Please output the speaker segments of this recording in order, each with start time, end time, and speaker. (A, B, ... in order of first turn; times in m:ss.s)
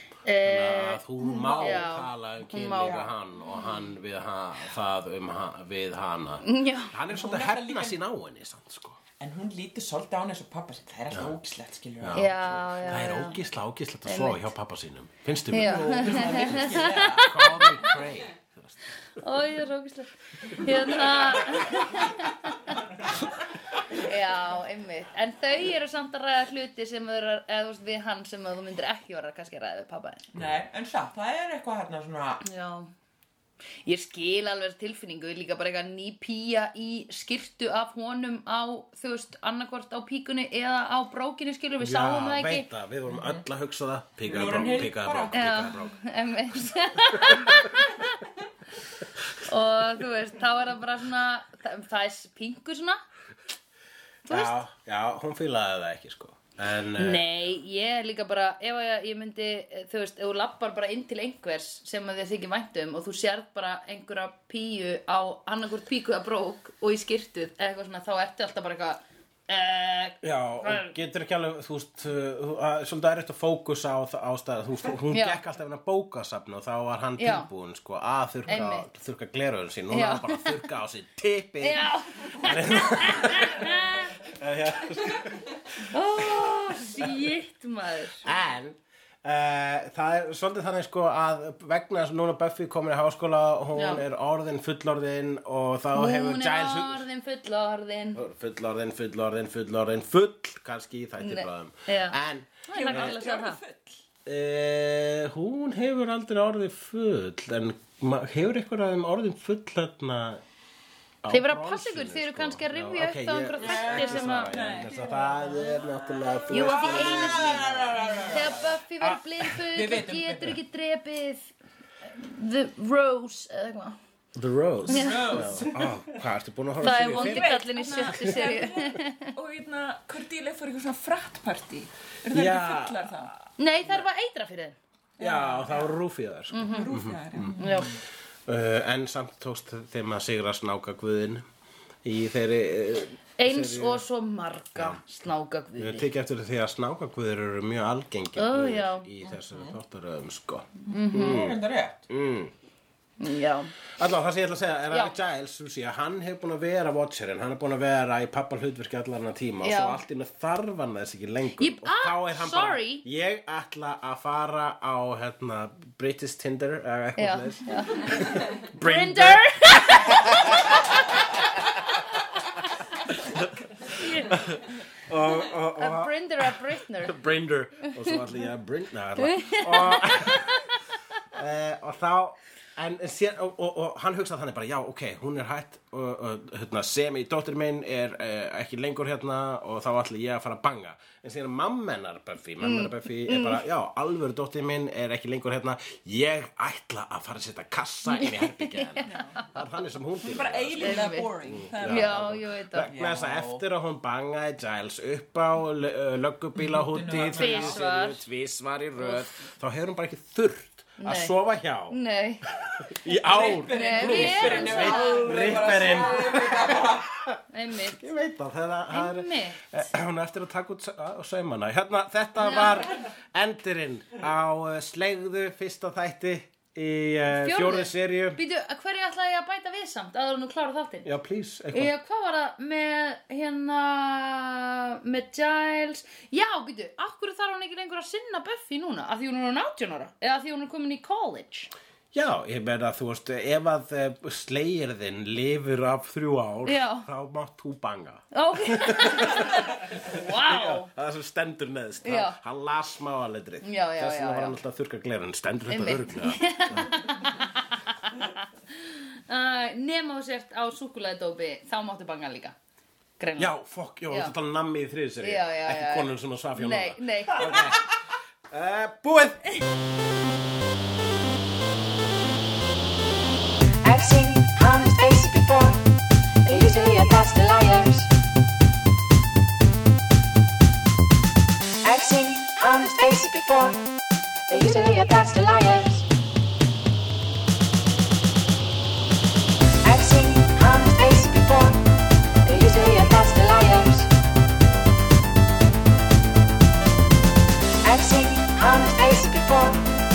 0:00.2-0:01.0 A
0:00.4-0:09.0 B
0:01.2-0:02.0 C
0:01.6-0:03.1 A
0:02.7-0:03.1 C
0:06.4-0:06.9 A
0:07.1-0:08.0 C
0:09.2-0:12.5 C
0:12.0-0:18.8 B
0:12.1-0:13.4 A
0:14.1-0:14.5 A
0:15.5-0:17.9 A
0:15.6-0:17.7 C
0:19.2-0:22.7 A
0:23.9-0:30.3 A
0:30.3-0:32.4 C
0:32.4-0:32.9 A
0:33.8-0:42.6 A
0:41.8-0:46.0 B
0:43.1-0:43.4 C
0:44.2-0:45.6 C
0:45.3-0:48.3 A
0:49.4-0:53.0 A
0:54.2-0:57.2 B
0:54.3-0:54.6 A
0:57.0-1:10.9 A
1:10.2-1:27.2 B
1:15.1-1:15.4 A
1:17.2-1:17.5 A
1:18.5-1:18.9 A
1:19.9-1:20.5 A
1:21.6-1:24.1 A
1:25.9-1:28.2 A
1:28.2-1:37.0 B
1:33.7-1:34.0 A
1:35.9-1:38.2 A
1:38.1-1:43.2 B
1:41.2-1:43.6 A
1:42.7-1:44.0 D
1:44.2-1:50.4 B
1:51.2-1:58.2 B
1:51.3-1:54.5 A
1:53.6-1:54.8 C
1:54.5-1:55.8 D
1:56.4-2:00.6 C
1:56.5-1:57.7 A
1:58.2-2:01.5 A
2:02.0-2:04.0 A
2:04.4-2:08.4 B
2:04.8-2:05.7 C
2:04.9-2:05.4 A
2:06.8-2:09.3 A
2:06.8-2:13.3 D
2:12.3-2:13.2 B
2:13.6-2:14.8 A
2:15.2-2:15.9 D
2:15.2-2:17.6 B
2:16.5-2:16.9 A
2:16.6-2:17.9 D
2:17.5-2:18.0 A
2:18.4-2:21.4 B
2:22.0-2:24.0 B
2:23.4-2:26.0 A
2:24.8-2:25.0 B
2:25.8-2:32.5 B
2:28.4-2:29.1 A
2:29.2-2:29.8 C
2:30.9-2:32.0 C
2:30.9-2:31.5 A
2:33.2-2:33.7 A
2:34.0-2:50.8 B
2:39.6-2:40.0 A
2:41.6-2:43.0 A
2:47.2-2:50.8 A
2:53.1-3:00.6 B
2:53.9-2:54.4 A
2:55.8-2:57.2 A
2:59.2-3:00.6 A
3:01.3-3:32.0 B
3:12.6-3:13.6 A
3:18.1-3:19.6 A
3:19.0-3:19.4 D
3:20.2-3:22.1 D
3:20.8-3:22.9 A
3:22.8-3:23.6 C
3:26.6-3:27.8 C
3:27.3-3:28.2 A
3:29.0-3:29.2 A
3:31.0-3:31.4 A
3:31.9-3:32.4 A
3:32.6-3:48.4 B
3:33.0-3:37.1 C
3:33.7-3:35.8 A
3:34.6-3:36.0 D
3:37.5-3:38.0 A
3:38.9-3:39.8 A
3:42.4-3:42.8 A
3:47.4-3:51.1 A
3:51.0-3:51.9 B
3:51.7-4:01.7 A
4:02.1-4:16.9 B
4:06.6-4:07.0 A
4:08.3-4:10.9 A
4:12.0-4:12.4 A
4:13.6-4:14.6 A
4:15.7-4:22.5 A
4:23.2-4:23.5 A
4:23.4-4:27.9 B
4:25.2-4:27.7 A
4:28.5-4:29.4 B
4:33.8-4:35.8 E
4:36.4-4:38.1 E
4:41.8-4:43.8 E
4:44.5-4:46.1 E
4:49.8-4:51.9 E
4:52.4-4:54.1 E
4:57.8-4:59.8 E